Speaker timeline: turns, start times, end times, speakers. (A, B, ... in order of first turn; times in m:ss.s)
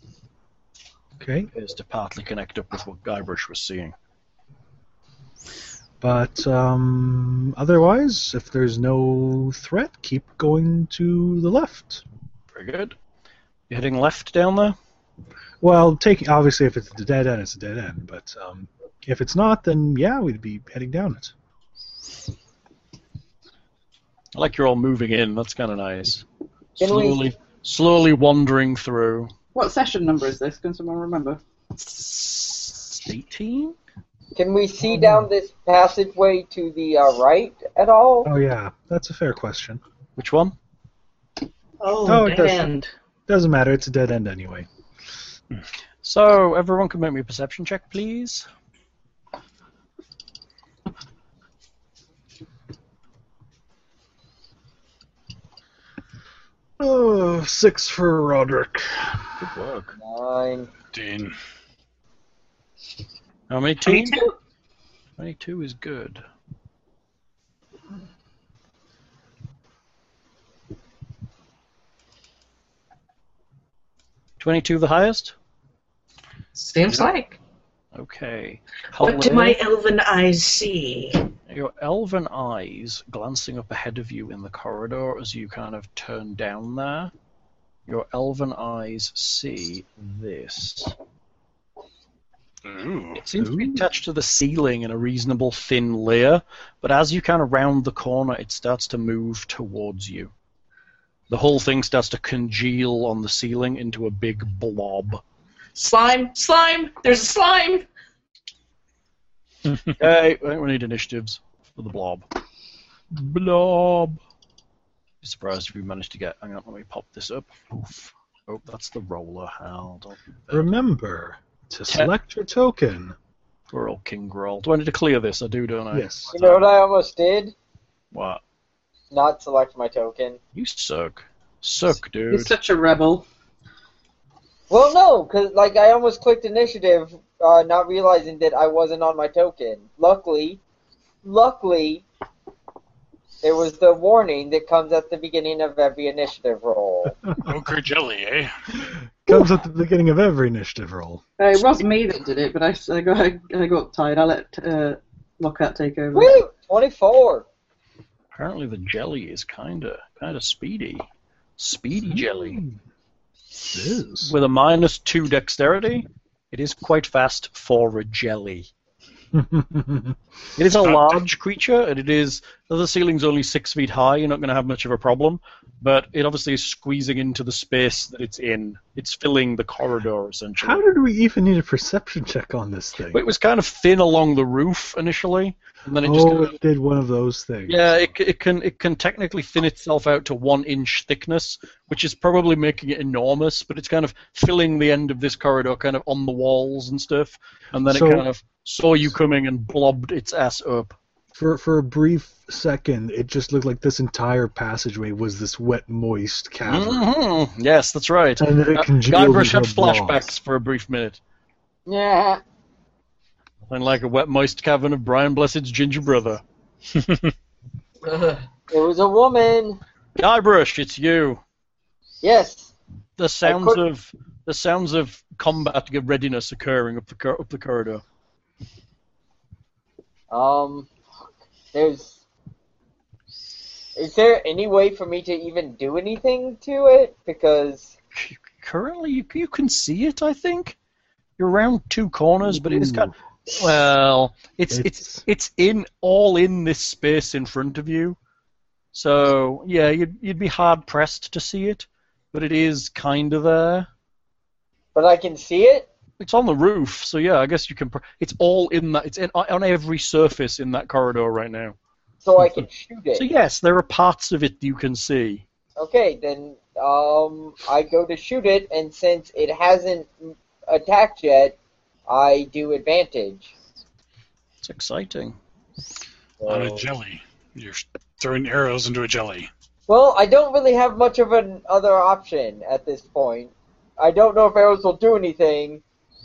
0:01.2-0:01.5 A
0:01.5-0:03.9 B
0:06.0-0:12.0 A
0:12.5-0:13.0 B
0:13.7-0:14.8 B
0:15.6-0:21.3 A
0:24.4-0:26.2 B
0:26.8-0:29.3 B
0:26.8-0:27.3 C
0:29.5-0:31.4 D
0:31.8-0:33.8 B
0:34.4-0:38.3 C
0:34.8-0:35.3 A
0:38.2-0:39.8 A
0:40.2-0:40.6 B
0:41.8-0:42.9 E
0:42.0-0:42.7 A
0:43.3-0:44.7 A
0:46.0-0:48.5 B
0:56.8-0:59.2 A
0:59.4-0:59.9 B
1:00.0-1:00.7 C
1:00.9-1:01.3 F
1:03.5-1:04.2 B
1:04.0-1:04.3 D
1:05.2-1:06.2 B
1:14.4-1:15.4 B
1:16.6-1:17.4 E
1:17.9-1:19.6 B
1:19.0-1:21.3 E
1:21.5-1:27.1 B
1:27.9-1:30.9 B
1:32.6-1:33.2 F
1:33.2-1:40.3 B
1:33.4-1:33.8 A
1:41.3-1:45.2 B
1:45.7-1:47.8 E
1:50.0-1:52.3 B
1:53.1-1:54.2 B
1:55.2-2:00.7 B
2:00.5-2:03.2 A
2:03.7-2:06.7 B
2:05.9-2:06.3 A
2:06.3-2:07.6 C
2:08.1-2:08.4 B
2:09.1-2:10.4 C
2:10.6-2:12.5 B
2:12.3-2:13.3 D
2:14.7-2:20.6 C
2:21.2-2:22.1 C
2:23.4-2:27.2 C
2:27.4-2:28.5 F
2:28.8-2:31.2 A
2:31.4-2:36.4 D
2:36.1-2:37.4 C
2:38.3-2:41.1 B
2:41.6-2:42.6 B
2:42.1-2:42.8 A
2:43.7-2:44.3 A
2:44.2-2:48.7 B
2:49.3-2:50.2 A
2:50.6-3:00.8 B
2:50.8-2:51.3 F
3:00.6-3:03.2 A
3:03.1-3:06.6 B
3:06.0-3:08.1 A
3:07.7-3:20.9 B
3:17.9-3:18.3 A
3:21.3-3:27.1 A
3:26.6-3:31.2 B
3:28.4-3:30.3 A
3:31.9-3:32.4 C
3:33.7-3:36.4 B
3:37.0-3:37.2 F
3:38.1-3:38.4 E
3:38.7-3:39.8 C
3:40.2-3:41.4 B
3:42.2-3:42.7 C
3:43.2-3:48.0 B
3:43.4-3:43.8 C
3:50.3-3:50.9 C
3:51.7-3:52.2 C
3:54.0-3:57.9 C
3:58.1-4:00.8 B
4:01.4-4:08.2 B
4:02.4-4:03.1 A
4:04.7-4:05.2 A
4:08.9-4:13.9 B
4:14.9-4:15.9 C
4:16.2-4:21.8 B
4:22.2-4:23.3 C
4:23.2-4:25.4 B
4:25.8-4:33.5 C
4:34.6-4:35.4 B
4:36.4-4:36.8 C
4:36.4-4:39.5 F
4:39.9-4:45.8 C